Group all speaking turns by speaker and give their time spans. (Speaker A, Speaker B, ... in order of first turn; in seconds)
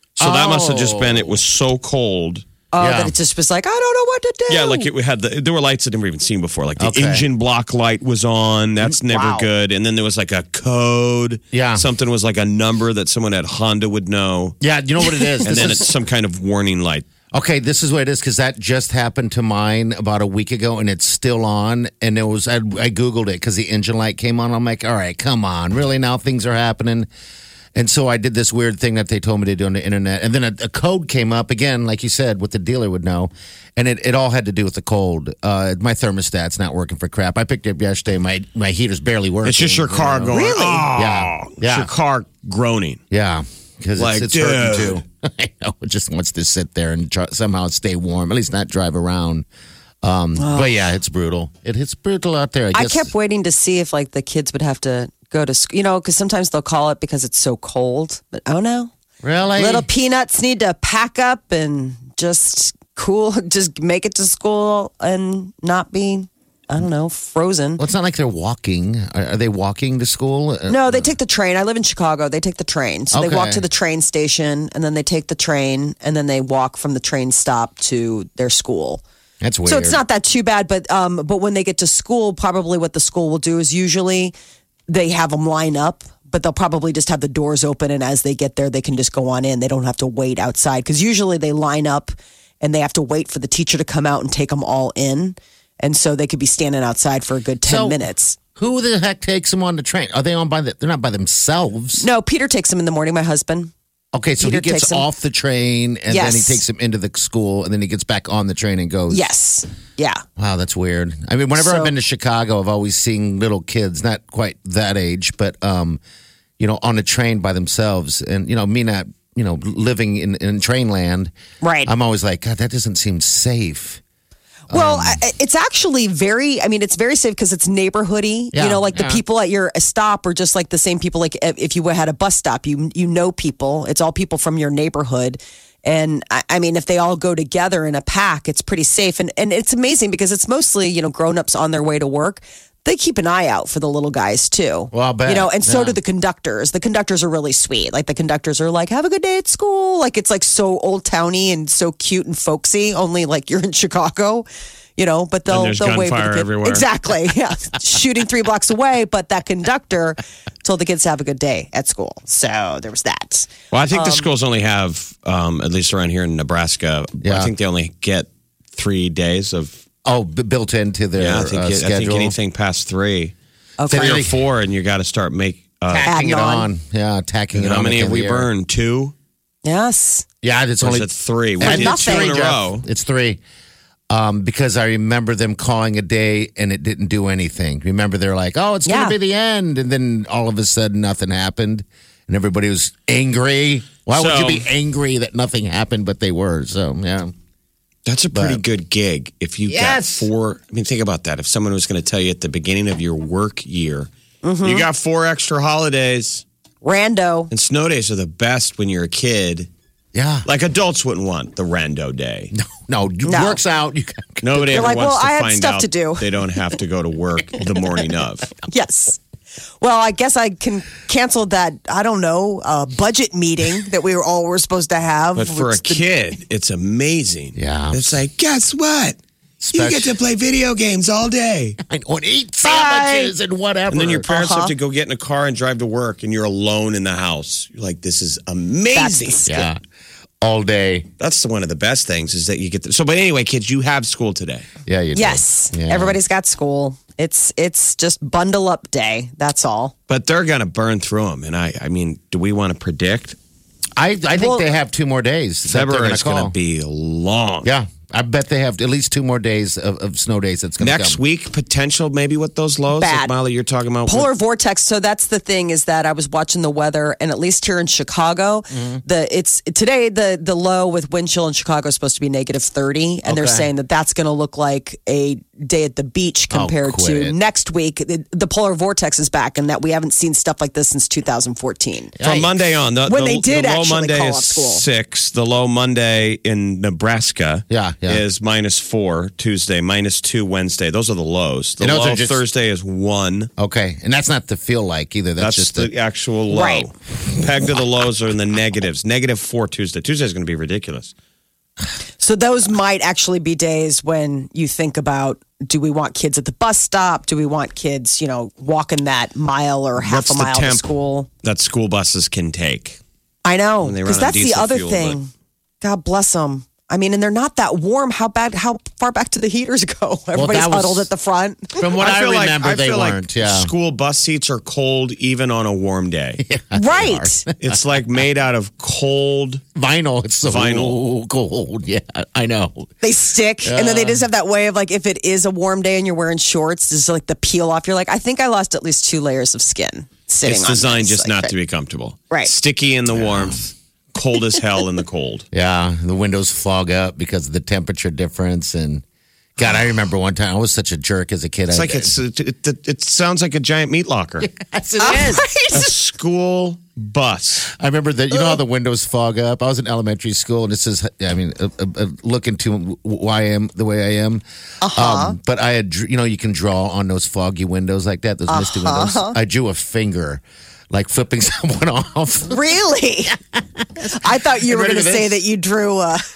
Speaker A: 0.2-2.4, 4.5-14.6, 15.4-17.1, 39.4-43.0, 44.0-45.0, 155.5-156.9, 163.7-169.8, 171.2-173.3, 173.9-176.1, 177.5-179.1, 180.8-182.8, 194.1-194.7, 198.1-204.1, 204.6-206.4, 207.5-209.7, 210.4-212.5, 214.4-218.5, 225.3-229.2, 229.7-231.8, 233.9-239.6, 241.2-244.7, 250.1-253.4, 255.7-257.7, 260.8-264.3, 282.2-293.5, 295.4-301.1, 310.0-310.9, 311.4-313.0, 313.8-315.2, 322.0-326.4, 327.6-329.6, 330.4-331.0, 340.4-345.4, 351.7-354.5, 355.7-357.7
Speaker B: 0.2-1.4, 2.8-3.1, 6.8-7.2, 11.5-11.8, 14.6-15.9, 17.3-27.1, 27.7-40.4, 40.9-41.9, 43.1-49.5, 50.0-53.1, 59.2-59.9, 67.8-71.1, 73.1-73.6, 79.4-80.0, 97.6-98.0, 98.5-102.0, 104.1-109.3, 110.4-116.0, 116.6-121.3, 121.8-124.0, 124.7-125.2, 128.5-129.2, 144.9-146.0, 167.2-167.5, 170.0-172.3, 173.9-174.4, 175.9-178.5, 180.4-181.1, 181.6-183.4, 184.1-197.3, 198.3-198.6, 199.7-200.3, 210.1-210.5, 212.5-214.8, 227.6-228.2, 229.6-230.2, 231.8-234.3, 239.4-239.8, 240.4-241.1, 244.9-246.2, 254.0-256.5, 257.6-261.2, 268.7-269.0, 273.2-273.7, 276.5-277.4, 282.2-282.5, 287.7-288.2, 291.8-292.4, 293.6-295.9, 320.3-321.1, 321.8-323.7, 326.4-327.8, 329.7-332.9, 333.6-334.2, 343.1-343.6, 345.5-349.0, 349.6-352.1, 354.4-355.5, 357.7-372.8, 373.3-375.4
Speaker C: 2.7-4.9, 9.1-9.5, 40.3-40.9, 50.4-50.7, 52.7-58.9, 59.5-67.8, 70.7-79.0, 79.6-84.3, 84.9-98.4, 102.0-103.7, 104.4-105.1, 106.1-106.6, 109.1-110.2, 111.6-111.9, 121.6-121.9, 124.7-164.3, 173.8-174.2, 176.0-176.7, 179.6-180.2, 181.6-182.3, 188.8-189.2, 204.4-204.8, 206.8-207.5, 213.2-213.6, 214.7-216.2, 218.7-219.2, 219.8-226.0, 232.6-233.3, 234.3-234.7, 238.9-239.5, 245.1-249.9, 254.4-254.7, 262.9-263.3, 264.1-282.2, 283.1-284.8, 296.5-296.9, 302.2-311.3, 313.4-315.3, 315.8-321.8, 326.7-327.4, 333.0-341.5, 355.0-355.9, 364.8-365.4, 368.5-369.4, 372.4-373.4, 374.1-376.2